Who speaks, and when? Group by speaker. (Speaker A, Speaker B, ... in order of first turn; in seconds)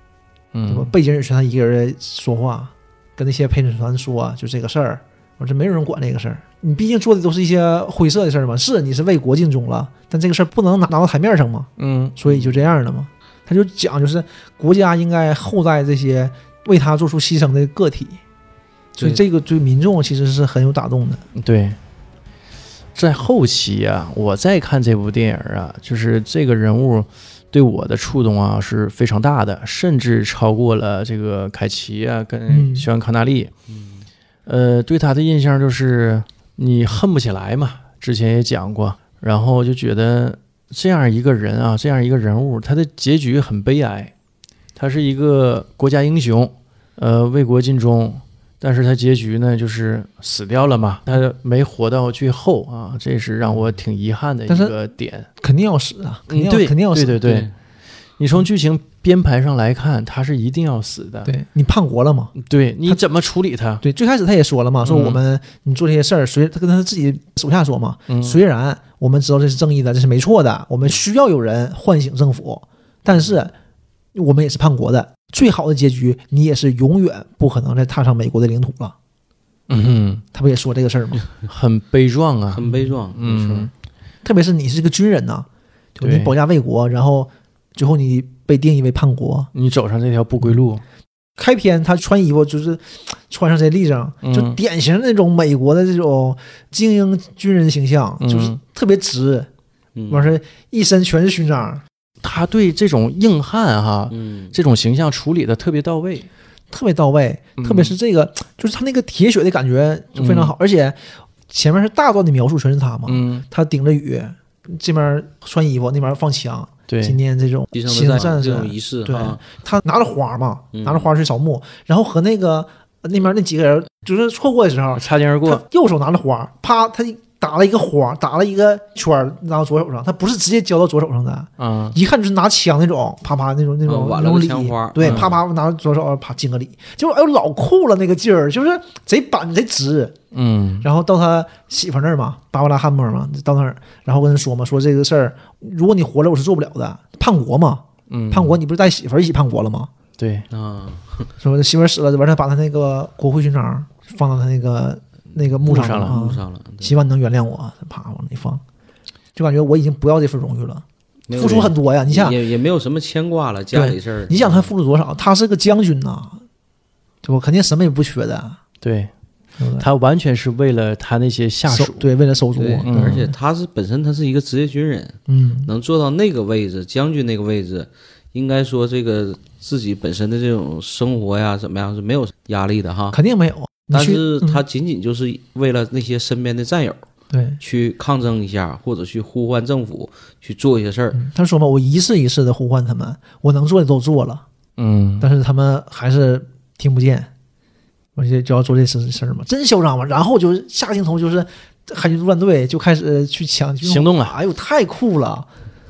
Speaker A: 0.5-0.9, 11.8-12.2, 21.4-21.8, 22.9-33.5, 34.5-44.1, 44.8-55.3, 56.3-57.5, 58.2-61.3, 62.4-63.8, 64.9-65.2, 68.1-68.4, 79.7-80.2, 81.5-83.7, 86.0-86.3, 89.5-90.8, 94.2-94.6, 98.2-98.6, 102.2-106.3, 107.6-108.0, 110.2-110.5, 113.1-113.5, 116.9-117.2, 124.9-125.6, 131.6-132.0, 135.0-135.3, 140.3-140.8, 148.1-148.6, 150.2-150.5, 155.7-156.2, 161.3-161.7, 168.8-169.1, 169.8-172.1, 172.8-173.3, 194.8-195.3, 203.8-204.4
Speaker B: 0.7-18.2, 19.0-21.2, 32.5-32.9, 54.5-54.8, 55.4-57.3, 61.2-62.3, 63.8-73.5, 74.2-79.0, 80.3-81.3, 82.6-82.9, 84.2-89.5, 91.4-99.5, 100.1-101.8, 106.7-140.2, 140.8-149.9, 151.4-158.6, 159.3-162.4, 163.7-166.4, 167.2-168.6, 169.6-169.9, 171.7-173.3, 175.3-175.7, 183.1-184.6, 187.3-187.6, 191.1-194.4, 195.2-197.3, 198.2-205.5
Speaker C: 12.3-12.7, 33.7-34.0, 57.2-57.5, 82.5-83.7, 100.0-100.3, 104.1-104.5, 117.7-119.4, 120.7-121.1, 133.9-135.4, 150.5-151.3, 155.7-156.9, 161.3-164.7, 172.6-183.2, 183.9-187.1, 187.6-191.2